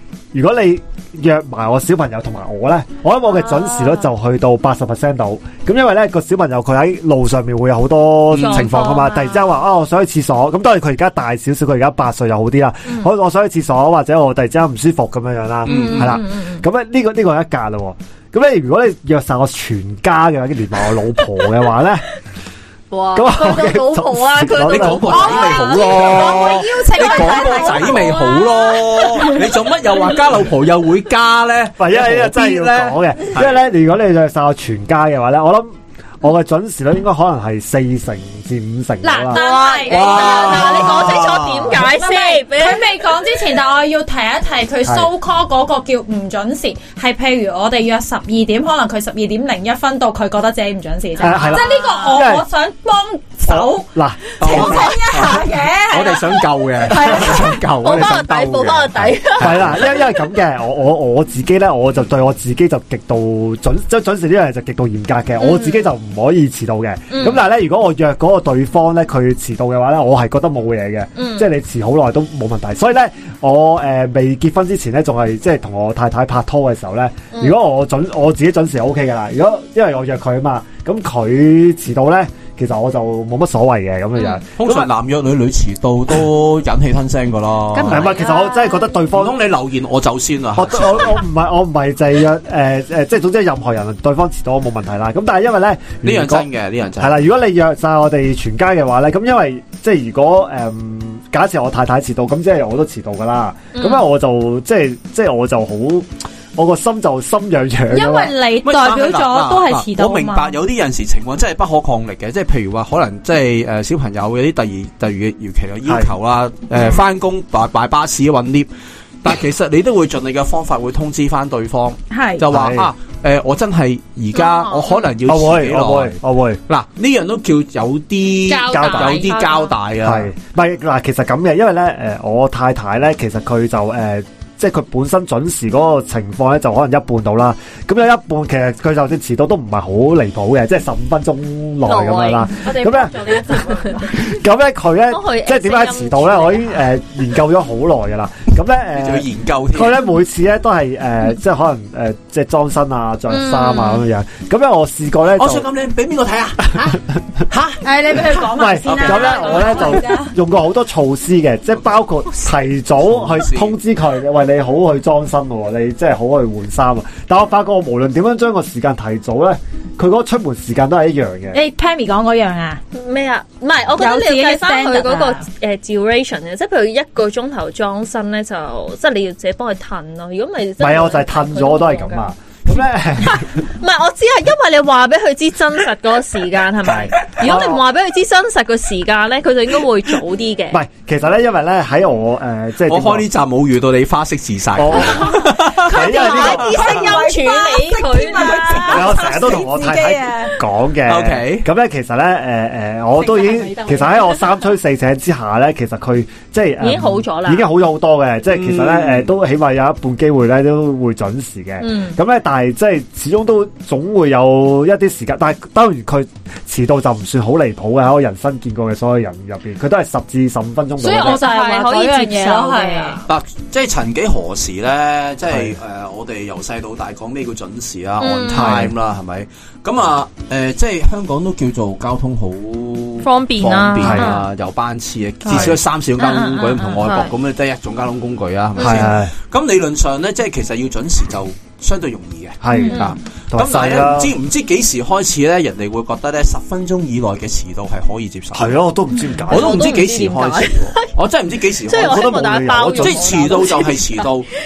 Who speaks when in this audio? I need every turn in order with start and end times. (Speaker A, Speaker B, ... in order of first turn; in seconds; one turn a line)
Speaker A: 0.3-22.1
Speaker B: 3.3-4.0
Speaker B: 8.3-9.5
Speaker C: 8.3-8.8
Speaker B: 15.6-16.6
Speaker C: 15.7-16.2
Speaker B: 22.9-29.7
Speaker A: 23.1-26.4
Speaker C: 24.6-33.6
Speaker D: 25.3-28.5
Speaker A: 31.8-39.4
Speaker D: 39.0-53.9
Speaker B: 39.3-43.0
Speaker C: 39.9-41.8
Speaker A: 51.2-52.5
Speaker B: 51.2-52.1
Speaker A: 53.5-55.0
Speaker D: 54.4-57.6
Speaker C: 54.4-59.8
Speaker B: 54.5-55.0
Speaker A: 56.9-58.3
Speaker B: 57.0-60.3
Speaker A: 59.4-84.9
Speaker B: 65.4-65.9
Speaker B: 67.1-67.4
Speaker B: 71.2-71.5
Speaker B: 84.2-84.4
Speaker C: 84.6-88.2
Speaker B: 87.7-89.0
Speaker A: 87.9-89.4
Speaker C: 89.1-91.2
Speaker A: 90.5-96.5
Speaker C: 96.0-97.2
Speaker A: 97.0-108.3
Speaker B: 103.7-104.0
Speaker D: 107.9-110.5
Speaker C: 108.6-118.7
Speaker A: 115.8-116.1
Speaker B: 116.7-117.0
Speaker C: 119.2-130.3
Speaker D: 122.1-122.5
Speaker A: 122.5-122.9
Speaker B: 124.3-125.1
Speaker A: 125.2-126.6
Speaker D: 128.4-129.4
Speaker A: 128.7-129.1
Speaker B: 128.7-129.8
Speaker A: 130.0-155.7
Speaker B: 141.8-142.5
Speaker D: 142.5-144.3
Speaker B: 145.1-146.8
Speaker C: 148.9-150.0
Speaker B: 153.3-154.1
Speaker C: 155.3-157.0
Speaker A: 156.7-157.0
Speaker D: 157.8-160.3
Speaker A: 158.1-171.6
Speaker C: 158.8-159.8
Speaker B: 159.5-159.9
Speaker C: 161.8-163.8
Speaker D: 171.5-172.8
Speaker B: 172.9-182.2
Speaker D: 173.9-175.4
Speaker A: 180.8-183.6
Speaker B: 183.2-190.8
Speaker A: 186.8-187.8
Speaker A: 190.7-193.3
Speaker C: 192.8-196.0
Speaker A: 194.7-196.8
Speaker B: 195.0-195.2
Speaker D: 195.2-200.6
Speaker B: 195.8-199.3
Speaker A: 198.8-221.4
Speaker C: 201.1-201.7
Speaker D: 203.2-204.7
Speaker B: 206.8-207.7
Speaker C: 208.5-209.3
Speaker B: 211.8-212.2
Speaker D: 221.0-223.2
Speaker B: 221.1-223.2
Speaker C: 223.2-248.8
Speaker A: 225.5-225.8
Speaker B: 228.2-228.9
Speaker A: 228.5-228.9
Speaker B: 233.2-234.5
Speaker A: 234.0-234.4
Speaker B: 235.4-237.3
Speaker A: 235.5-235.8
Speaker B: 238.8-239.1
Speaker A: 238.8-239.3
Speaker A: 242.6-244.3
Speaker D: 242.7-243.1
Speaker B: 242.9-243.1
Speaker A: 248.5-250.0
Speaker B: 249.5-251.1
Speaker C: 249.5-252.4
Speaker B: 251.8-254.3
Speaker A: 251.9-253.9
Speaker C: 253.0-254.5